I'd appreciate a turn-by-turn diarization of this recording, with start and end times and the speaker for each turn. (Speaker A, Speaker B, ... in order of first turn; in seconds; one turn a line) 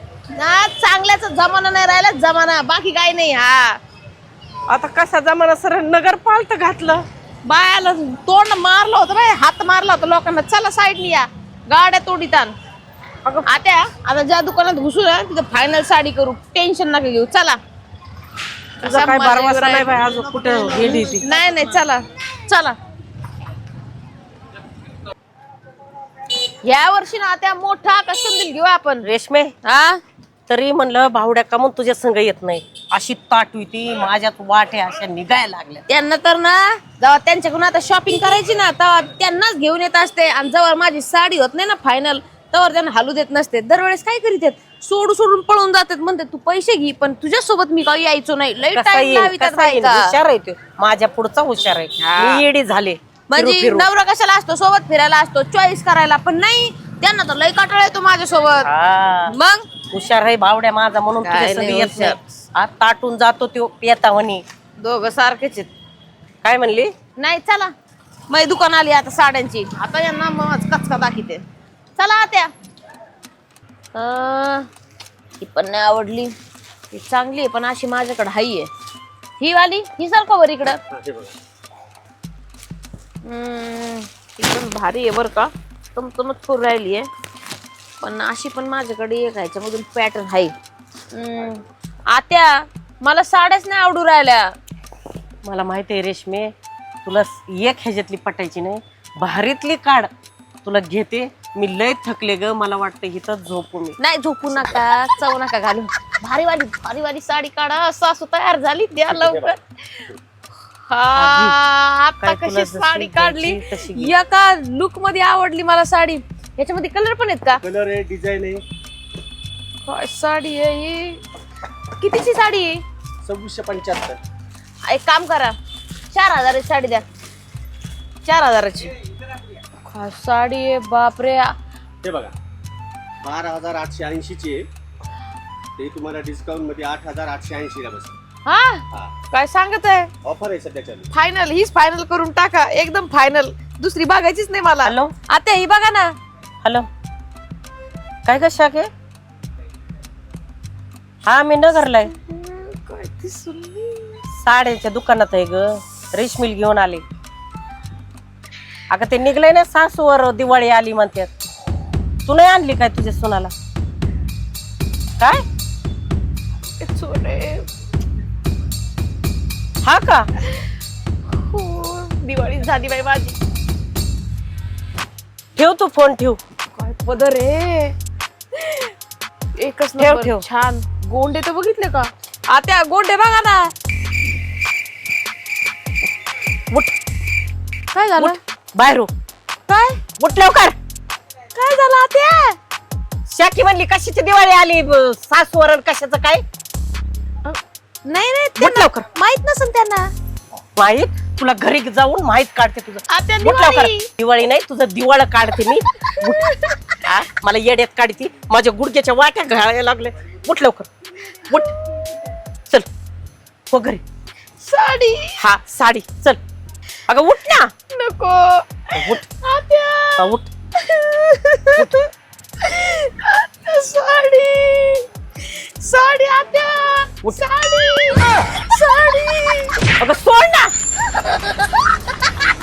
Speaker A: 0.3-3.8
Speaker B: 4.7-7.0
Speaker A: 7.5-12.6
Speaker A: 13.4-17.6
Speaker B: 18.8-21.3
Speaker A: 18.8-22.8
Speaker A: 26.6-29.1
Speaker B: 29.0-29.5
Speaker A: 29.6-30.0
Speaker B: 30.5-35.8
Speaker A: 35.9-50.2
Speaker B: 48.7-53.9
Speaker A: 52.0-52.4
Speaker A: 53.3-58.7
Speaker B: 58.6-59.4
Speaker A: 59.2-59.6
Speaker B: 59.9-64.4
Speaker A: 61.2-62.2
Speaker A: 64.8-65.7
Speaker B: 66.4-66.9
Speaker A: 67.2-67.7
Speaker A: 68.3-71.4
Speaker A: 72.0-72.5
Speaker A: 73.9-74.7
Speaker A: 75.4-76.3
Speaker A: 76.9-78.7
Speaker A: 79.4-80.8
Speaker C: 80.9-81.3
Speaker A: 83.2-87.1
Speaker A: 88.0-90.5
Speaker A: 91.1-94.5
Speaker B: 95.4-96.5
Speaker B: 97.0-100.1
Speaker B: 100.6-104.0
Speaker A: 104.0-110.1
Speaker C: 109.1-109.5
Speaker A: 110.9-117.6
Speaker B: 111.1-111.6
Speaker B: 112.2-114.1
Speaker C: 117.6-118.6
Speaker A: 119.8-121.2
Speaker A: 122.0-122.8
Speaker C: 123.2-124.2
Speaker A: 124.9-125.6
Speaker A: 126.1-127.0
Speaker A: 128.2-128.9
Speaker A: 129.9-131.5
Speaker C: 132.0-132.3
Speaker C: 133.2-134.7
Speaker C: 135.8-138.1
Speaker A: 138.4-140.1
Speaker C: 140.2-141.1
Speaker A: 141.1-146.2
Speaker B: 144.8-145.1
Speaker B: 148.2-148.9
Speaker B: 151.2-152.1
Speaker A: 152.1-154.2
Speaker B: 154.3-157.0
Speaker B: 158.9-161.3
Speaker B: 162.2-163.5
Speaker A: 166.8-167.7
Speaker B: 169.8-170.3
Speaker A: 171.3-173.4
Speaker B: 175.6-176.4
Speaker A: 176.8-177.9
Speaker A: 178.5-178.9
Speaker A: 179.6-183.7
Speaker B: 180.0-180.4
Speaker A: 187.9-188.4
Speaker B: 188.2-189.1
Speaker A: 189.7-190.0
Speaker B: 190.2-190.8
Speaker A: 191.5-192.6
Speaker B: 193.3-196.4
Speaker A: 197.4-200.1
Speaker B: 198.6-199.1
Speaker B: 200.8-210.9
Speaker A: 203.1-204.1
Speaker A: 206.0-206.8
Speaker A: 211.4-212.1
Speaker B: 211.5-211.7
Speaker B: 213.7-214.0
Speaker A: 214.6-215.4
Speaker B: 215.4-216.4
Speaker B: 217.1-217.7
Speaker A: 217.9-222.0
Speaker B: 218.9-219.2
Speaker B: 220.2-220.5
Speaker B: 221.7-222.1
Speaker A: 222.6-229.9
Speaker B: 230.0-230.7